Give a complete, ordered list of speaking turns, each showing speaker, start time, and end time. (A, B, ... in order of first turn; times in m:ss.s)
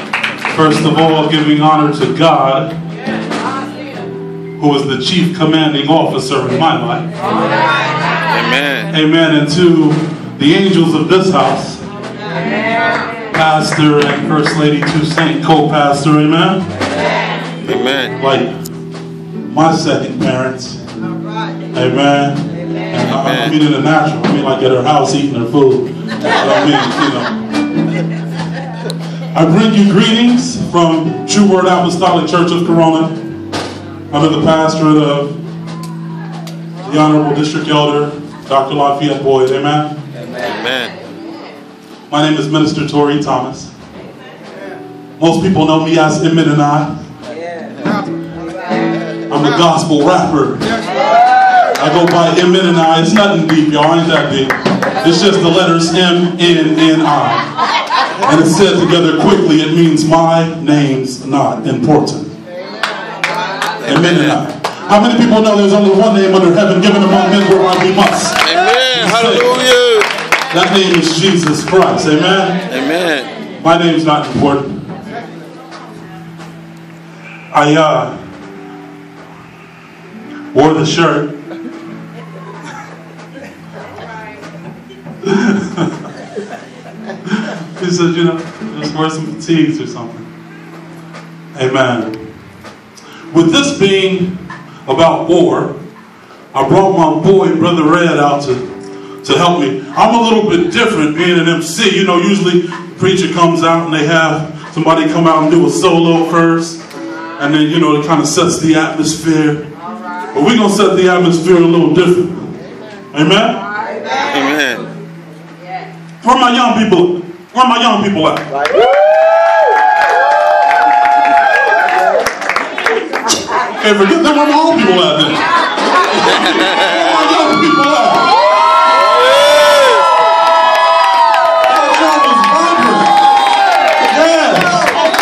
0:00.5-0:02.8 A
0:04.6-0:07.1 A
0:08.3-0:08.9 B
0:08.9-0:11.8 A
0:13.3-0:16.6 A
0:17.6-0:18.2 B
0:18.2-0:18.5 A
0:19.5-0:20.8 A
0:21.7-0:27.4 A
0:23.0-0:23.5 B
0:29.3-0:33.3 A
0:34.1-0:35.4 A
0:36.8-0:40.0 A
0:40.4-0:41.0 B
0:42.1-0:43.7 A
0:45.2-0:47.0 A
0:49.3-0:50.7 A
0:51.7-0:57.5 A
0:58.2-1:02.3 A
1:03.8-1:09.6 A
1:03.8-1:04.4 B
1:08.4-1:10.1 B
1:10.5-1:12.6 A
1:12.7-1:13.3 B
1:13.6-1:14.8 A
1:17.5-1:18.2 A
1:20.5-1:21.4 A
1:25.2-1:25.9 A
1:27.2-1:30.3 A
1:31.5-1:32.2 A
1:33.3-1:35.8 A
1:36.5-1:38.6 A
1:39.2-1:46.8 A
1:47.4-1:49.7 A
1:50.3-1:52.5 A
1:53.1-1:53.6 A
1:54.2-1:54.9 B
1:56.2-1:58.5 A
2:03.6-2:05.5 A
2:06.0-2:08.3 A
2:11.6-2:13.1 A
2:14.0-2:15.0 A